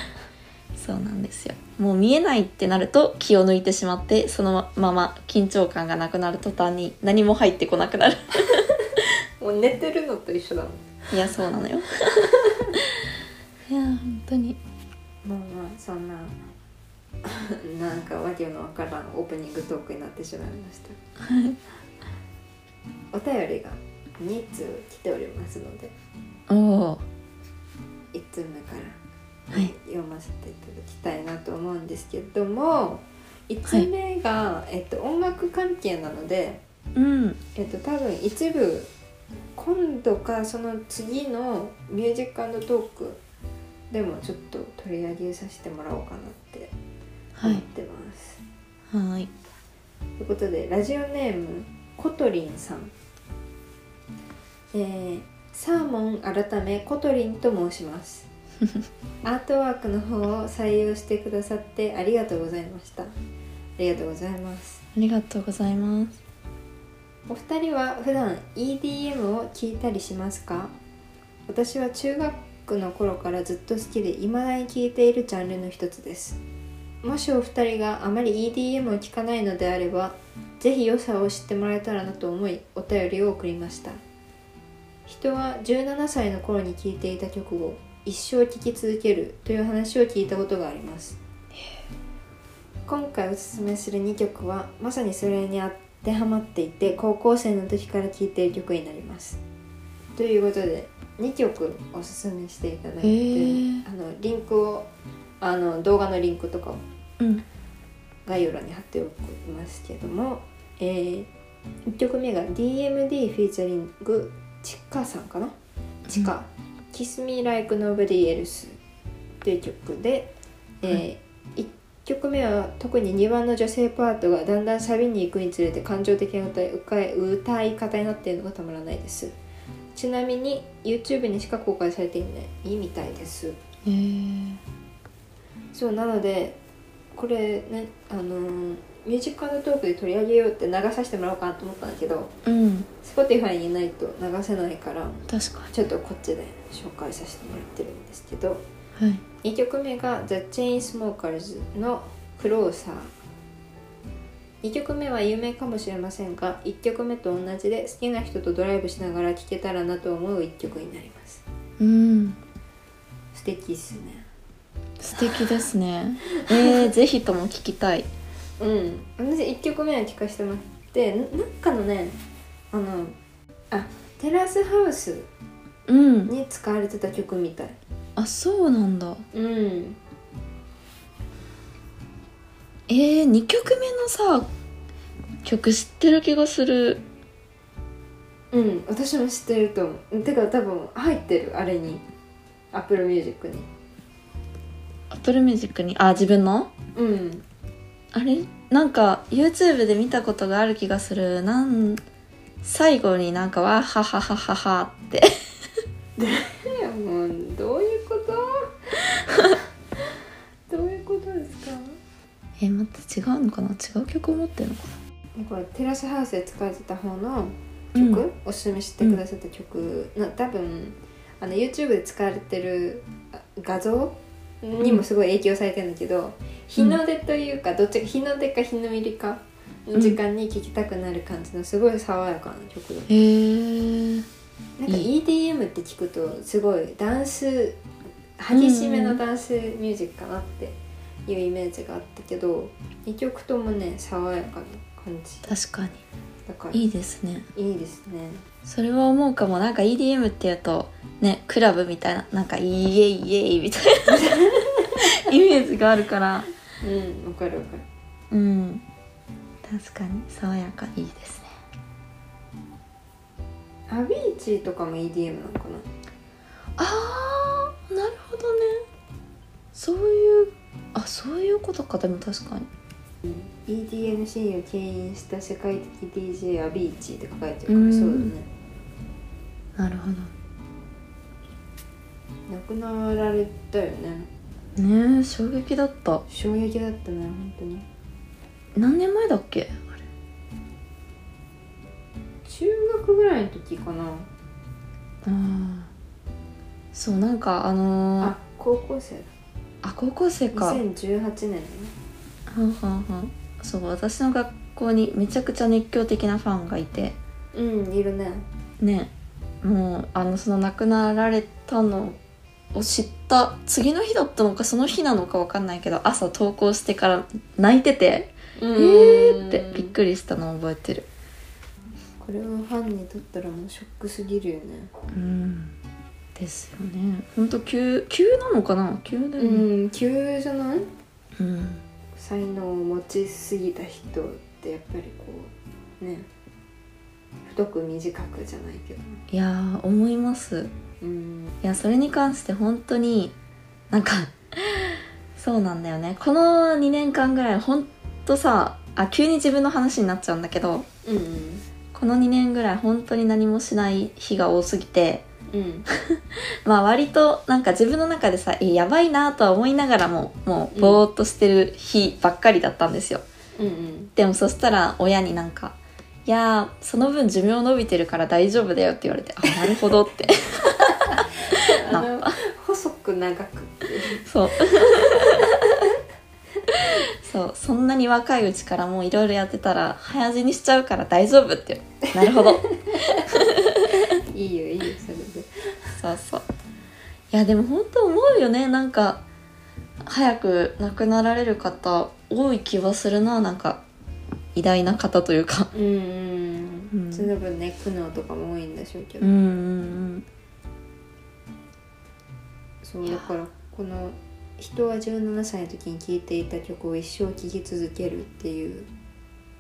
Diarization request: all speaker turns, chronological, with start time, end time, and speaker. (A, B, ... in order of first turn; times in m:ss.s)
0:00.8-0:08.8 A
0:09.4-0:10.8 B
0:11.1-0:11.9 A
0:12.2-0:12.7 B
0:13.7-0:14.6 A
0:15.2-0:16.4 B
0:17.2-0:21.0 B
0:21.2-0:21.6 A
0:23.1-0:25.9 B
0:26.5-0:27.0 A
0:28.1-0:29.0 B
0:29.5-0:36.6 B
0:37.0-0:37.4 A
0:37.6-0:38.9 B
0:39.6-0:43.2 B
0:43.9-0:46.7 B
0:47.4-0:47.6 A
0:47.4-0:48.4 B
0:48.9-0:49.3 A
0:50.2-0:52.9 B
0:54.7-0:58.3 B
0:59.2-1:03.1 B
1:03.8-1:04.8 B
1:05.0-1:06.2 A
1:07.3-1:10.7 B
1:11.5-1:16.4 B
1:17.0-1:24.0 B
1:25.1-1:31.2 B
1:32.9-1:39.4 B
1:40.2-1:44.9 B
1:43.0-1:43.8 A
1:45.4-1:46.8 B
1:48.3-1:51.3 B
1:51.9-1:55.5 B
1:56.1-1:58.8 B
1:59.4-2:09.3 B
2:10.0-2:13.6 B
2:13.8-2:14.6 A
2:15.7-2:16.6 B
2:17.2-2:22.3 B
2:22.4-2:22.9 A
2:23.0-2:28.6 B
2:25.3-2:25.7 A
2:29.0-2:29.2 A
2:29.4-2:33.1 B
2:34.6-2:41.4 B
2:41.8-2:42.4 A
2:43.3-2:44.3 B
2:45.0-2:48.1 A
2:45.2-2:45.5 B
2:46.3-2:46.9 B
2:48.6-2:52.2 B
2:52.7-2:53.2 B
2:53.7-2:55.3 B
2:55.9-2:56.3 A
2:56.3-2:57.8 B
2:58.2-2:59.2 A
2:59.3-3:00.0 B
3:02.9-3:04.5 A
3:05.4-3:07.0 A
3:08.5-3:12.0 B
3:12.7-3:13.7 B
3:15.1-3:16.7 A
3:17.0-3:17.4 B
3:18.1-3:22.0 A
3:22.6-3:25.4 A
3:26.2-3:28.7 B
3:29.3-3:29.6 B
3:30.7-3:32.0 B
3:32.6-3:34.9 A
3:35.4-3:53.1 B
3:38.0-3:38.2 A
3:53.1-3:54.3 A
3:54.8-3:57.8 B
3:58.4-4:05.5 B
3:58.5-3:59.2 A
4:05.5-4:06.0 A
4:06.5-4:06.8 B
4:06.7-4:07.5 A
4:07.6-4:08.4 B
4:08.7-4:14.3 A
4:14.1-4:15.0 B
4:15.1-4:16.5 A
4:16.8-4:17.8 B
4:18.3-4:18.8 A
4:19.6-4:21.5 A
4:23.9-4:25.9 B
4:26.8-4:28.9 A
4:29.8-4:32.7 A
4:33.2-4:38.5 B
4:37.7-4:38.3 A
4:39.8-4:40.3 A
4:42.5-4:44.3 B
4:44.8-4:46.2 A
4:46.3-4:47.9 B
4:48.8-4:50.0 A
4:52.5-4:54.3 B
4:55.2-4:55.9 A
4:56.9-4:58.4 A
4:58.2-4:59.3 B
4:59.8-5:00.8 A
5:00.5-5:01.9 B
5:02.5-5:07.2 A
5:07.5-5:08.5 B
5:08.8-5:12.2 A
5:12.7-5:21.1 A
5:18.6-5:19.9 B
5:22.2-5:24.9 B
5:25.1-5:25.7 A
5:26.4-5:29.6 A
5:29.4-5:30.9 B
5:31.4-5:31.8 A
5:32.2-5:36.3 B
5:37.5-5:39.2 B
5:39.3-5:40.7 A
5:41.0-5:41.6 B
5:41.6-5:43.4 A
5:43.9-5:50.9 A
5:51.1-5:51.6 B
5:51.9-5:55.2 A
5:55.5-5:55.9 B
5:56.1-6:03.2 A
6:00.7-6:01.0 B
6:03.6-6:04.1 B
6:04.2-6:12.4 A
6:11.0-6:15.9 B
6:14.2-6:15.8 A
6:16.7-6:24.1 A
6:22.1-6:23.3 B
6:24.0-6:25.5 B
6:26.0-6:26.5 A
6:27.3-6:29.2 A
6:30.0-6:33.8 A
6:34.6-6:35.7 A
6:35.7-6:39.3 B
6:36.9-6:37.3 A
6:39.2-6:40.3 A
6:42.8-6:48.9 B